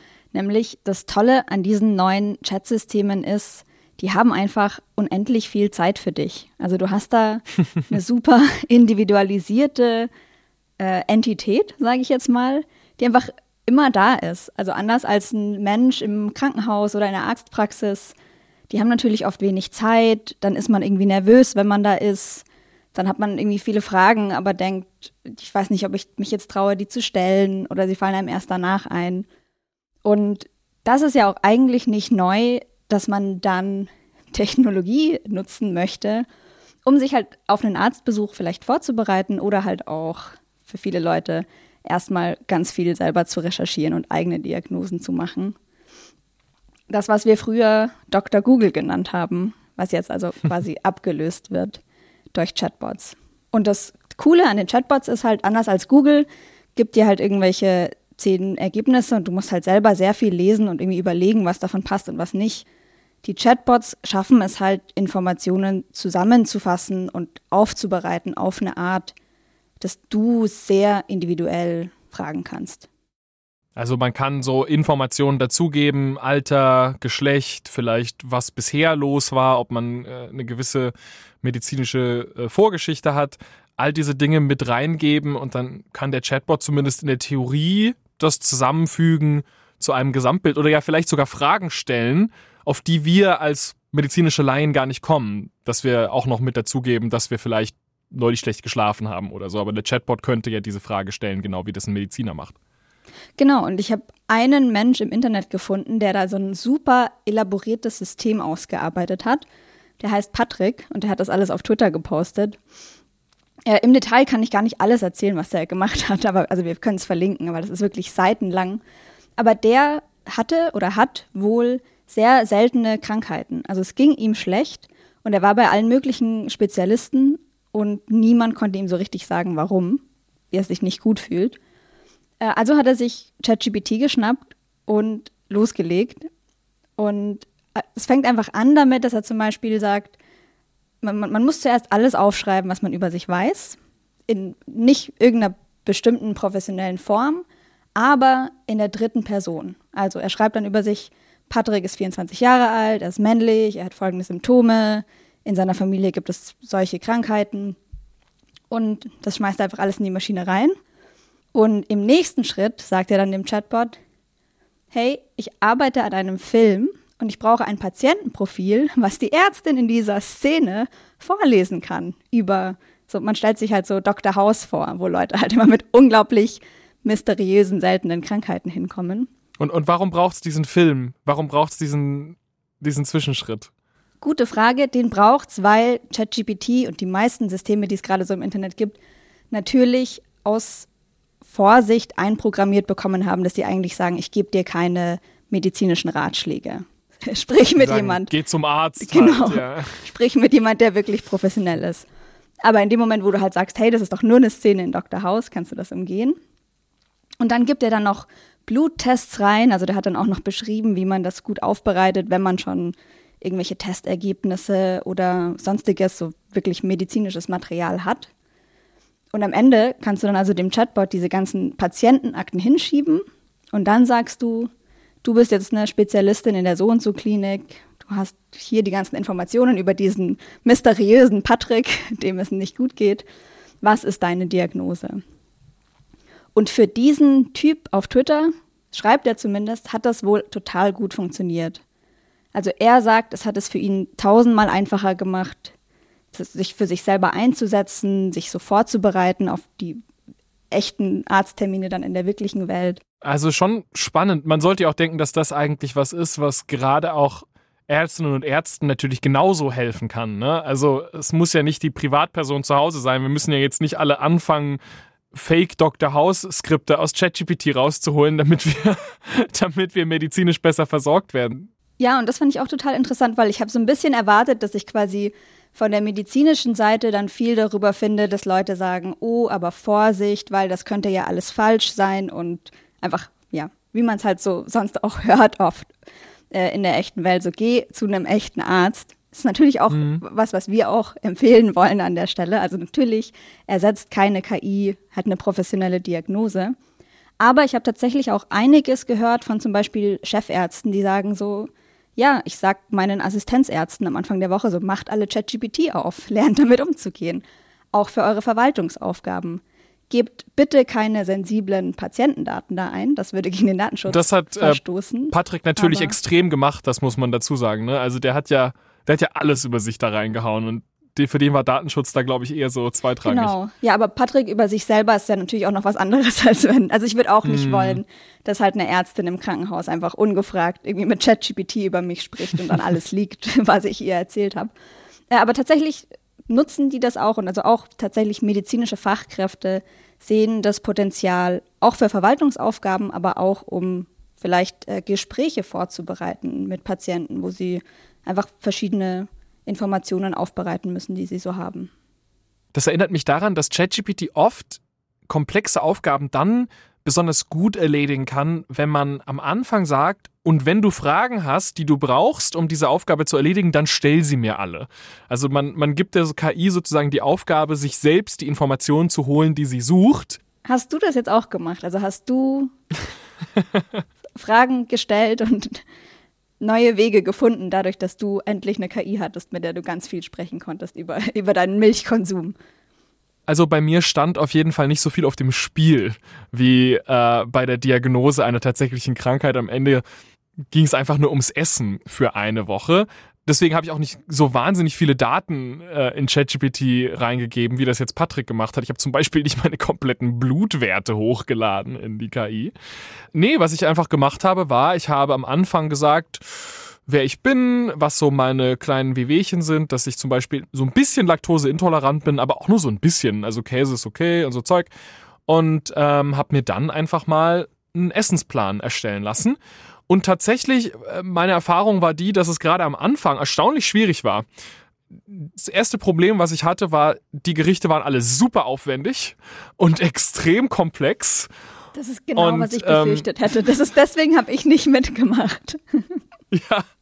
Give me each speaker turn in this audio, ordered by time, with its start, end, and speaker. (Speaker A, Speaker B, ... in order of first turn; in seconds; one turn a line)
Speaker A: 0.3-10.1
Speaker A: 10.8-18.1
Speaker A: 18.7-29.2
Speaker A: 30.0-36.2
Speaker A: 36.8-45.5
Speaker A: 46.9-51.8
Speaker A: 52.3-62.6
Speaker A: 63.2-69.1
Speaker A: 69.8-72.8
Speaker B: 73.8-102.5
Speaker A: 103.4-109.4
Speaker A: 110.0-112.6
Speaker A: 113.7-118.8
Speaker A: 119.4-131.6
Speaker A: 132.4-136.3
Speaker A: 137.0-140.1
Speaker A: 141.0-143.8
Speaker A: 144.3-147.4
Speaker A: 147.9-157.8
Speaker A: 158.7-160.8
Speaker A: 161.5-163.9
Speaker A: 164.9-179.3
Speaker B: 179.6-183.7
Speaker A: 184.2-189.0
Speaker A: 189.5-190.9
Speaker A: 191.4-198.3
Speaker B: 197.8-199.9
Speaker A: 199.0-202.1
Speaker A: 202.6-206.4
Speaker A: 207.4-218.3
Speaker A: 219.3-224.7
Speaker A: 225.2-233.2
Speaker A: 233.8-235.2
Speaker A: 236.5-241.8
Speaker A: 242.5-245.7
Speaker A: 246.3-250.0
Speaker A: 250.7-253.0
Speaker B: 253.2-264.8
Speaker B: 265.3-271.7
Speaker A: 272.0-285.9
Speaker A: 286.5-296.8
Speaker B: 289.9-290.2
Speaker A: 297.4-316.1
Speaker B: 314.1-314.8
Speaker B: 315.3-323.5
Speaker A: 323.2-334.7
Speaker B: 327.4-328.0
Speaker A: 335.3-351.9
Speaker B: 352.7-370.4
Speaker A: 370.6-372.7
Speaker A: 374.4-375.8
Speaker A: 376.6-382.5
Speaker B: 383.5-390.0
Speaker B: 390.7-402.7
Speaker B: 403.3-414.9
Speaker B: 415.5-424.4
Speaker B: 425.3-431.5
Speaker A: 431.9-436.1
Speaker B: 432.4-433.2
Speaker B: 436.5-436.8